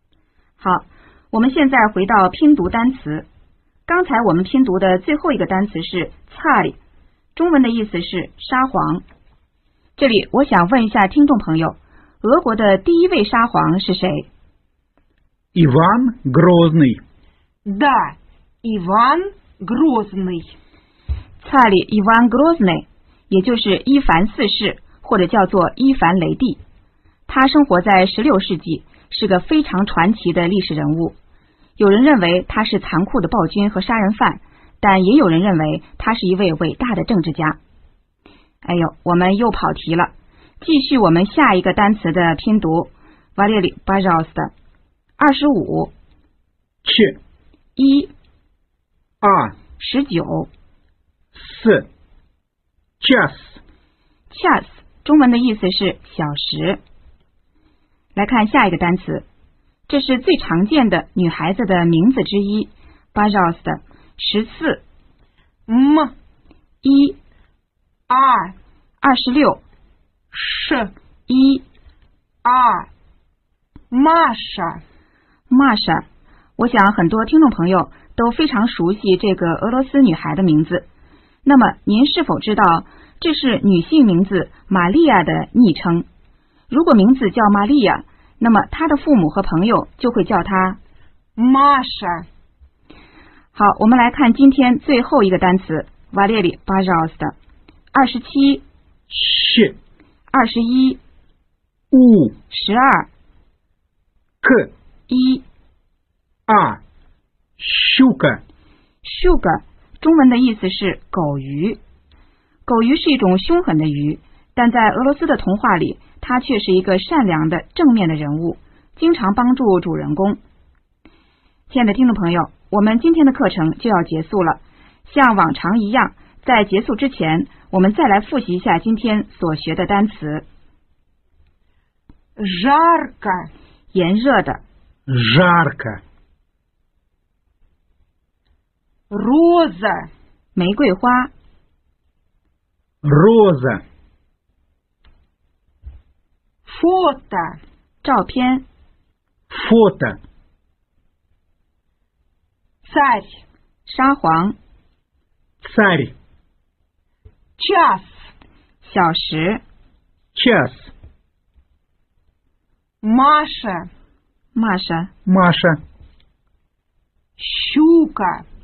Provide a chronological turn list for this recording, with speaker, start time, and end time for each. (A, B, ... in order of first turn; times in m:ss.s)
0:00.6-0:03.3 A
0:03.9-0:06.8 A
0:07.4-0:09.0 A
0:10.0-0:14.3 A
0:15.6-0:17.0 B
0:17.6-0:20.5 C
0:21.4-0:26.6 A
0:27.3-0:31.2 A
0:31.8-0:37.6 A
0:38.6-0:44.5 A
0:45.2-0:45.9 A
0:46.8-0:47.2 B
0:47.8-0:48.1 A
0:49.2-0:49.6 B
0:49.8-0:50.5 A
0:51.4-0:51.9 B
0:53.0-0:53.6 B
0:54.3-0:56.8 A
0:58.2-0:59.3 A
0:59.9-1:04.8 A
1:05.7-1:06.1 C
1:06.8-1:07.2 A
1:08.1-1:08.6 C
1:09.0-1:09.6 A
1:10.3-1:10.9 C
1:11.3-1:11.6 A
1:12.4-1:12.9 C
1:13.9-1:14.8 C
1:15.5-1:16.0 A
1:16.6-1:20.9 A
1:21.4-1:26.1 A
1:26.7-1:30.8 A
1:31.4-1:32.3 C
1:33.5-1:37.4 A
1:37.9-1:38.6 A
1:39.1-1:39.8 B
1:40.3-1:41.0 A
1:41.9-1:42.4 B
1:42.5-1:43.1 A
1:44.4-1:44.7 B
1:45.1-1:45.4 A
1:46.5-1:46.8 B
1:47.6-1:48.4 B
1:49.0-1:51.8 A
1:52.7-2:00.4 A
2:01.7-2:10.5 A
2:12.4-2:13.5 C
2:13.9-2:14.6 A
2:15.1-2:16.0 B
2:19.1-2:20.1 C
2:20.6-2:21.3 A
2:23.0-2:23.8 B
2:26.7-2:27.6 C
2:28.0-2:28.7 A
2:29.5-2:30.2 B
2:32.8-2:33.4 C
2:33.9-2:34.6 A
2:35.6-2:36.2 B
2:37.6-2:38.3 C
2:38.8-2:39.6 A
2:40.4-2:40.9 B
2:43.0-2:43.9 C
2:44.5-2:45.1 A
2:45.3-2:45.8 B
2:47.4-2:48.4 C